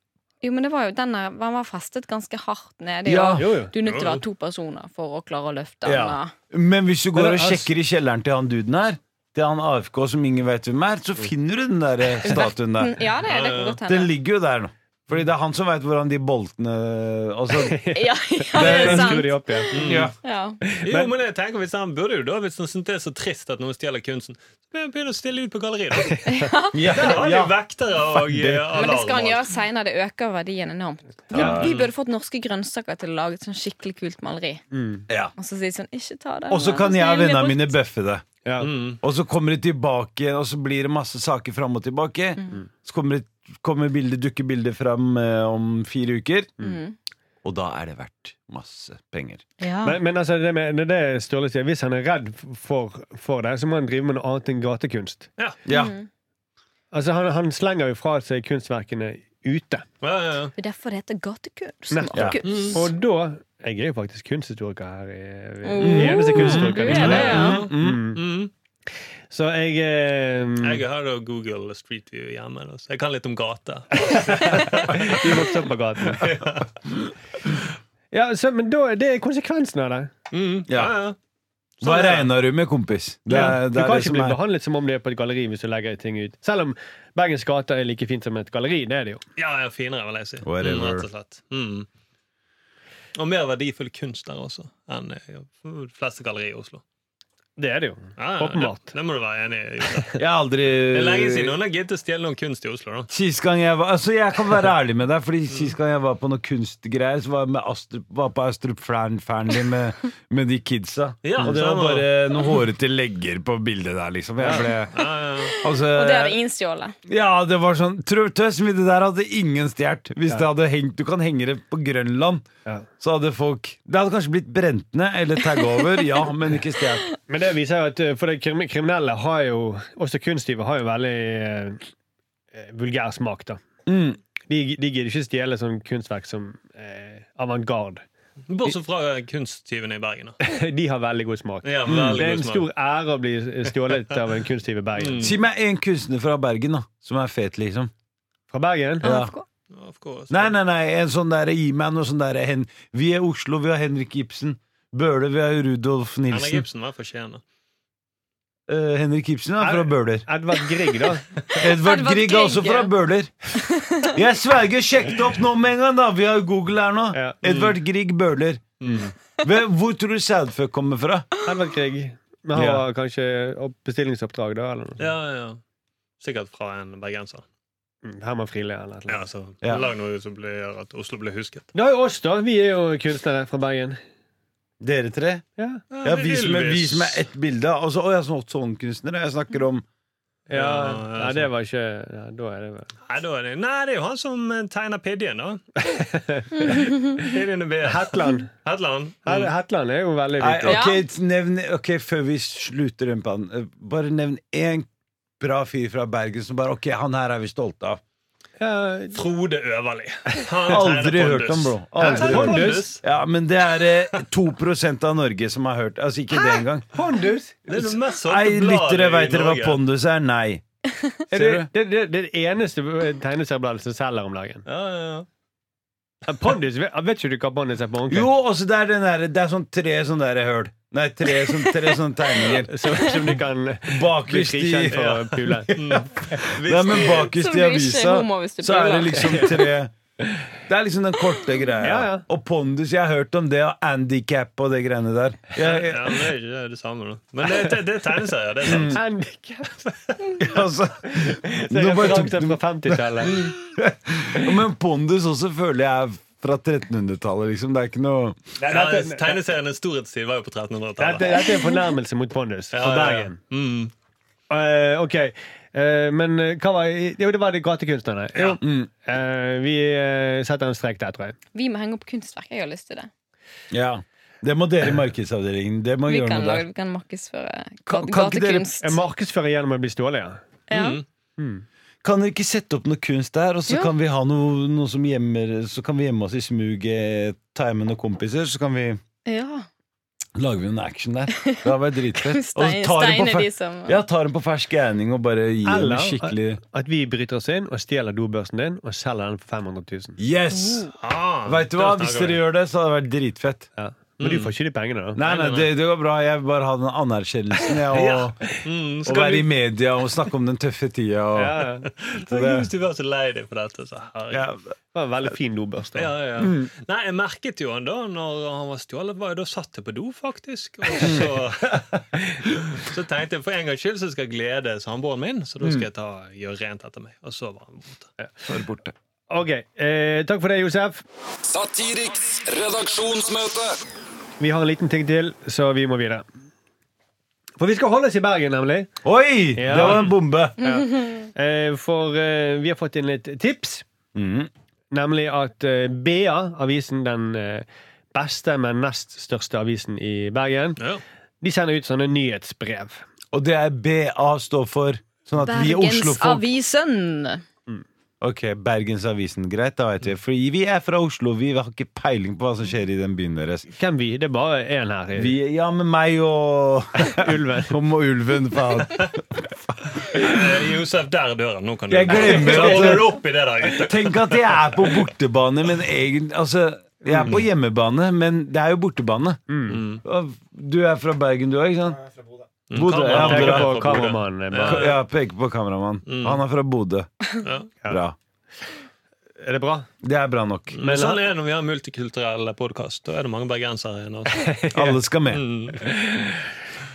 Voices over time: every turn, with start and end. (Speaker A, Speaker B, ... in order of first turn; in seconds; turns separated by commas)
Speaker A: 0.4-6.3, Speaker B: 3.0-3.5, Speaker C: 3.4-3.7, Speaker D: 3.8-4.2, Speaker B: 5.8-13.1, Speaker C: 7.2-7.7, Speaker A: 12.3-14.1, Speaker D: 13.2-13.8, Speaker B: 13.8-17.8, Speaker C: 17.6-20.1, Speaker A: 17.9-20.6, Speaker B: 18.6-19.3, Speaker D: 19.7-20.1, Speaker B: 19.8-20.1, Speaker C: 20.7-21.1, Speaker D: 20.8-26.3, Speaker C: 26.1-26.4, Speaker A: 26.3-27.1, Speaker B: 26.7-27.6, Speaker D: 26.9-29.5, Speaker B: 28.1-28.8, Speaker A: 28.7-34.6, Speaker B: 31.3-31.7, Speaker D: 31.4-31.9, Speaker C: 34.7-35.1, Speaker B: 35.1-35.3, Speaker A: 35.4-37.7, Speaker B: 36.5-38.2, Speaker C: 38.5-38.7, Speaker D: 38.6-39.0, Speaker B: 39.0-46.6, Speaker A: 46.6-47.0, Speaker B: 47.4-49.4, Speaker A: 49.6-50.0, Speaker C: 49.8-55.3, Speaker B: 55.6-55.9, Speaker A: 55.7-56.1, Speaker C: 56.9-59.9, Speaker D: 60.0-60.5, Speaker A: 60.6-62.9, Speaker C: 61.9-68.2, Speaker B: 62.1-62.4, Speaker D: 62.5-62.8, Speaker A: 65.6-67.6, Speaker B: 65.8-68.0, Speaker D: 66.9-68.5, Speaker C: 69.3-70.8, Speaker D: 70.6-75.3, Speaker C: 74.0-76.3, Speaker D: 76.1-76.7, Speaker C: 78.1-80.1, Speaker D: 80.3-81.2, Speaker B: 80.7-81.0, Speaker B: 81.8-84.4, Speaker D: 81.8-82.3, Speaker C: 83.3-89.2, Speaker D: 89.4-91.9, Speaker B: 90.4-91.1, Speaker D: 93.2-96.8, Speaker C: 97.6-98.9, Speaker D: 98.2-100.2, Speaker B: 100.2-101.6, Speaker D: 100.9-103.1, Speaker B: 103.1-116.4, Speaker D: 111.2-112.1, Speaker C: 114.4-114.7, Speaker D: 114.9-115.6, Speaker A: 115.5-117.0, Speaker B: 117.1-122.5, Speaker B: 123.0-127.1, Speaker C: 127.3-131.9, Speaker C: 132.5-133.6, Speaker B: 133.9-134.2, Speaker C: 134.5-138.0, Speaker D: 138.5-140.4, Speaker C: 140.4-145.3, Speaker D: 141.6-142.7, Speaker B: 141.9-142.2, Speaker D: 145.0-145.3, Speaker B: 145.2-147.9, Speaker C: 148.5-149.1, Speaker B: 149.0-149.3, Speaker A: 149.0-149.4, Speaker D: 149.7-150.6, Speaker B: 150.3-156.7, Speaker D: 156.3-157.4, Speaker B: 158.7-160.3, Speaker C: 159.6-161.3, Speaker A: 161.5-162.9, Speaker B: 161.6-163.3, Speaker A: 163.6-164.1, Speaker B: 164.1-168.6, Speaker D: 167.4-167.8, Speaker D: 168.8-169.1, Speaker B: 169.4-171.3, Speaker C: 171.4-175.1, Speaker B: 172.6-172.8, Speaker D: 175.0-175.6, Speaker D: 176.2-177.4, Speaker C: 178.1-179.2, Speaker D: 179.1-181.7, Speaker C: 181.7-184.0, Speaker B: 184.8-185.4, Speaker C: 185.6-185.8, Speaker D: 185.9-187.2, Speaker B: 186.0-189.8, Speaker C: 190.5-192.9, Speaker D: 190.5-191.5, Speaker D: 193.1-195.7, Speaker C: 195.8-197.0, Speaker A: 196.7-197.2, Speaker D: 196.8-199.5, Speaker C: 197.8-198.5, Speaker C: 199.2-200.8, Speaker B: 200.4-204.9, Speaker A: 200.7-201.0, Speaker B: 205.4-208.0, Speaker C: 208.6-209.2, Speaker D: 209.1-213.0, Speaker B: 210.7-216.9, Speaker C: 212.0-213.0, Speaker C: 216.3-217.6, Speaker D: 217.7-219.8, Speaker B: 217.8-220.6, Speaker B: 221.3-221.7, Speaker C: 221.3-224.7, Speaker D: 224.7-225.3, Speaker C: 226.3-228.3, Speaker B: 228.1-233.2, Speaker C: 232.7-235.7, Speaker B: 233.9-239.9, Speaker D: 234.9-237.3, Speaker A: 237.3-239.7, Speaker B: 240.7-246.3, Speaker C: 241.8-242.2, Speaker D: 245.6-249.0, Speaker B: 248.6-249.0, Speaker C: 248.8-250.4, Speaker B: 250.4-258.4, Speaker C: 251.1-253.4, Speaker C: 258.6-259.4, Speaker D: 258.6-261.5, Speaker C: 261.0-263.4, Speaker D: 262.7-263.9, Speaker C: 264.5-271.4, Speaker D: 268.4-268.6, Speaker B: 268.6-268.9, Speaker A: 271.6-273.1, Speaker B: 273.7-276.6, Speaker A: 276.1-279.0, Speaker B: 277.9-278.7, Speaker C: 278.8-280.4, Speaker A: 280.7-281.0, Speaker D: 280.7-281.1, Speaker C: 281.4-281.6, Speaker B: 282.0-289.0, Speaker A: 289.3-289.7, Speaker B: 290.4-296.6, Speaker A: 291.4-294.0, Speaker C: 295.6-300.2, Speaker B: 300.2-300.9, Speaker D: 301.0-302.4, Speaker B: 301.5-303.7, Speaker C: 303.8-305.2, Speaker D: 304.2-304.5, Speaker B: 305.2-308.4, Speaker D: 305.2-305.7, Speaker D: 307.9-309.5, Speaker B: 309.0-311.6, Speaker C: 311.4-311.9, Speaker D: 312.0-314.5, Speaker B: 312.3-312.7, Speaker B: 314.3-314.7, Speaker C: 314.9-316.2, Speaker D: 315.9-321.9, Speaker B: 321.0-321.3, Speaker D: 322.5-328.1, Speaker B: 328.5-328.9, Speaker C: 329.3-331.0, Speaker E: 331.4-333.8, Speaker C: 334.4-336.2, Speaker C: 337.6-338.9, Speaker B: 339.0-340.6, Speaker C: 339.6-343.9, Speaker A: 340.6-341.3, Speaker B: 344.1-344.5, Speaker C: 344.9-350.8, Speaker C: 351.4-353.0, Speaker B: 353.3-356.5, Speaker A: 355.4-357.4, Speaker B: 358.2-363.7, Speaker C: 363.8-365.4, Speaker B: 365.1-370.4, Speaker C: 367.0-367.8, Speaker D: 370.0-375.0, Speaker B: 371.9-373.2, Speaker B: 373.8-379.4, Speaker C: 377.0-377.4, Speaker C: 379.5-379.8, Speaker D: 379.7-380.0, Speaker B: 380.0-382.1, Speaker D: 382.7-385.0, Speaker B: 382.7-387.1, Speaker C: 383.2-384.9, Speaker D: 386.1-386.4, Speaker D: 387.4-387.7, Speaker B: 387.9-388.2, Speaker C: 389.4-389.9, Speaker B: 390.0-390.8, Speaker D: 390.8-394.5, Speaker C: 390.8-391.2, Speaker C: 394.5-395.0, Speaker B: 394.7-395.4, Speaker D: 395.3-395.9, Speaker C: 395.8-396.5